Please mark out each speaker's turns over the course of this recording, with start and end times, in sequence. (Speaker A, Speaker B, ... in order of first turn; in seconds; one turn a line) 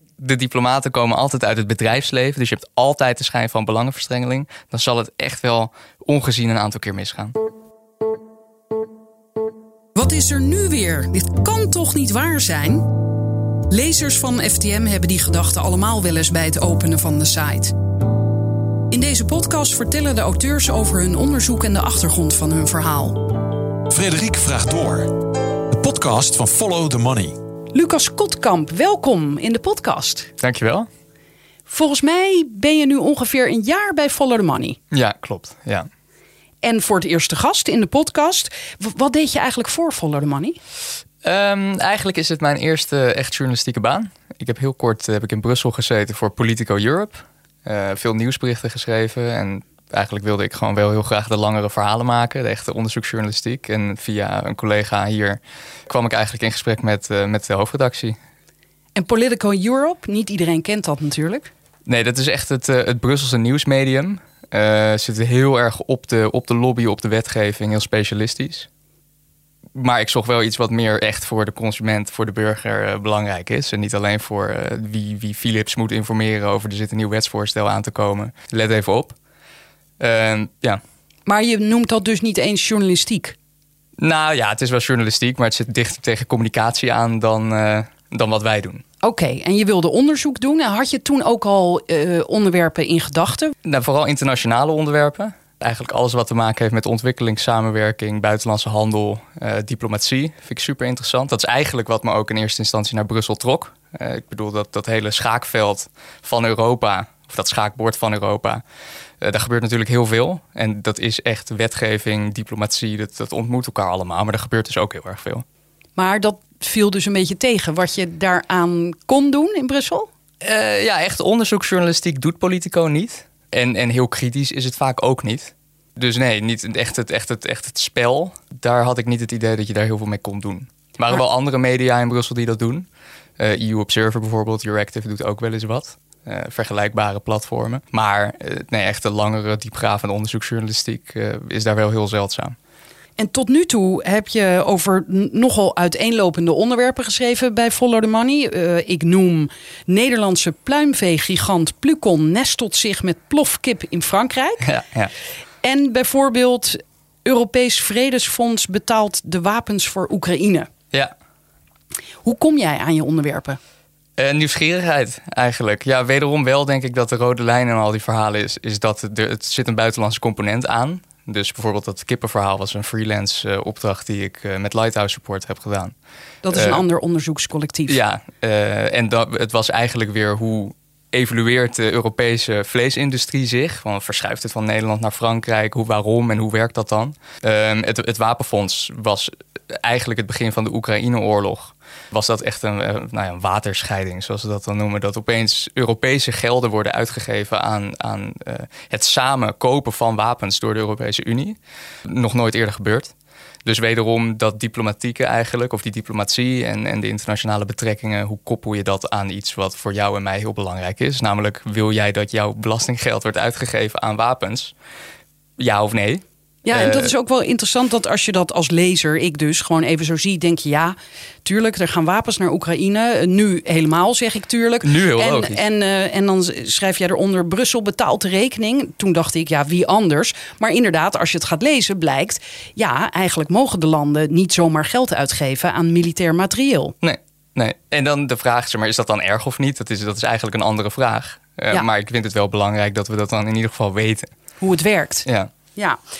Speaker A: 0.2-7.3
Speaker B: 9.9-12.9
Speaker B: 13.7-17.7
Speaker B: 18.9-23.2
Speaker C: 23.9-25.1
Speaker C: 25.7-27.4
Speaker B: 27.7-30.3
Speaker A: 30.4-30.9
Speaker B: 31.7-34.8
Speaker A: 34.9-35.9
Speaker B: 36.6-40.6
Speaker A: 41.2-58.2
Speaker B: 58.9-61.5
Speaker A: 61.9-68.7
Speaker A: 69.7-79.1
Speaker A: 80.0-80.8
Speaker B: 81.2-83.3
Speaker A: 84.0-88.8
Speaker B: 89.0-93.5
Speaker A: 93.6-108.6
Speaker A: 109.2-115.4
Speaker B: 116.0-120.1
Speaker A: 120.4-132.9
Speaker A: 133.4-142.6
Speaker B: 143.2-154.6
Speaker A: 154.6-155.1
Speaker B: 155.6-160.7
Speaker B: 162.2-163.6
Speaker A: 164.2-175.9
Speaker B: 176.4-178.0
Speaker A: 176.5-176.8
Speaker A: 177.9-203.1
Speaker A: 203.6-214.7
Speaker A: 215.6-217.1
Speaker B: 216.6-236.9
Speaker A: 224.8-225.6
Speaker A: 237.0-244.3
Speaker B: 244.6-246.0
Speaker A: 245.2-245.5